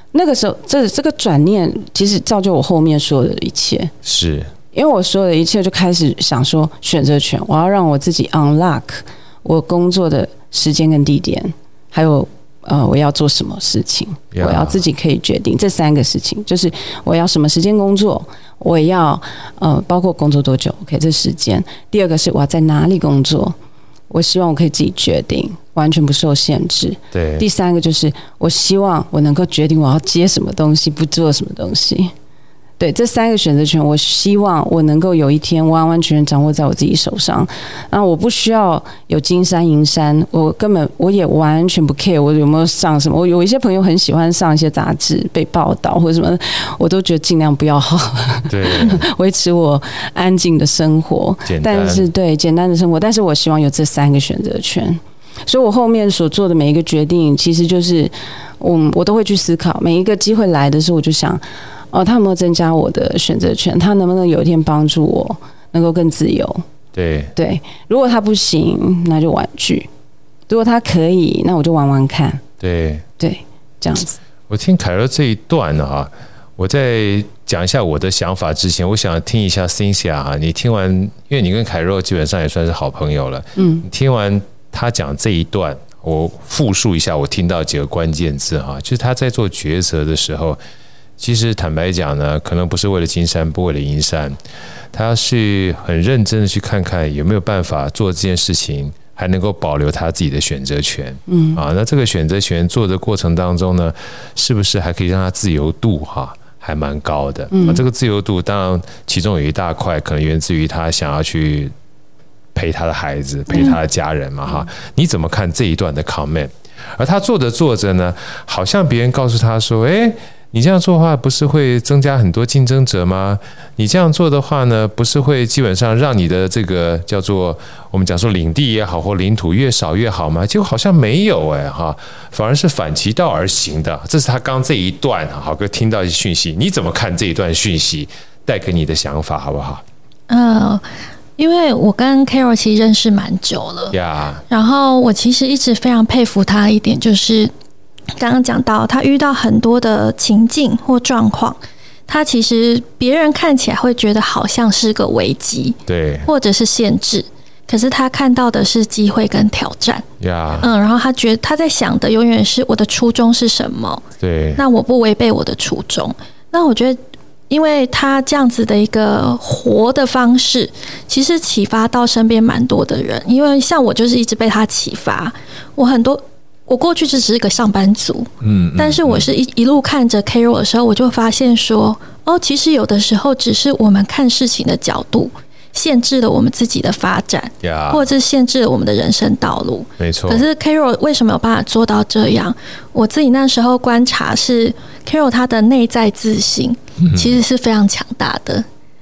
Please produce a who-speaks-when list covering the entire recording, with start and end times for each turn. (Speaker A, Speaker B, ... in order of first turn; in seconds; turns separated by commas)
Speaker A: 0.1-3.9, Speaker B: 4.0-4.5, Speaker A: 4.7-23.6, Speaker B: 14.3-14.8, Speaker A: 24.1-32.1, Speaker B: 27.1-27.4, Speaker A: 32.8-61.4, Speaker B: 48.5-49.0, Speaker B: 51.5-52.1, Speaker A: 61.9-66.6, Speaker B: 66.9-67.3, Speaker A: 67.3-69.9, Speaker A: 70.5-72.4, Speaker B: 72.6-73.0, Speaker A: 73.2-74.2, Speaker B: 74.5-90.6, Speaker A: 83.6-83.8, Speaker B: 91.2-94.4, Speaker B: 94.9-111.7, Speaker A: 101.3-101.6, Speaker A: 107.5-107.8, Speaker B: 112.5-139.8, Speaker C: 140.3-140.8, Speaker C: 141.4-144.0, Speaker B: 143.9-144.4, Speaker C: 144.5-147.5, Speaker C: 148.2-160.1, Speaker B: 155.9-156.3, Speaker B: 160.2-160.7, Speaker C: 160.6-164.1, Speaker B: 164.2-164.6, Speaker C: 164.6-198.7, Speaker B: 178.4-179.3, Speaker B: 187.6-188.1, Speaker B: 190.0-190.5, Speaker B: 197.0-197.4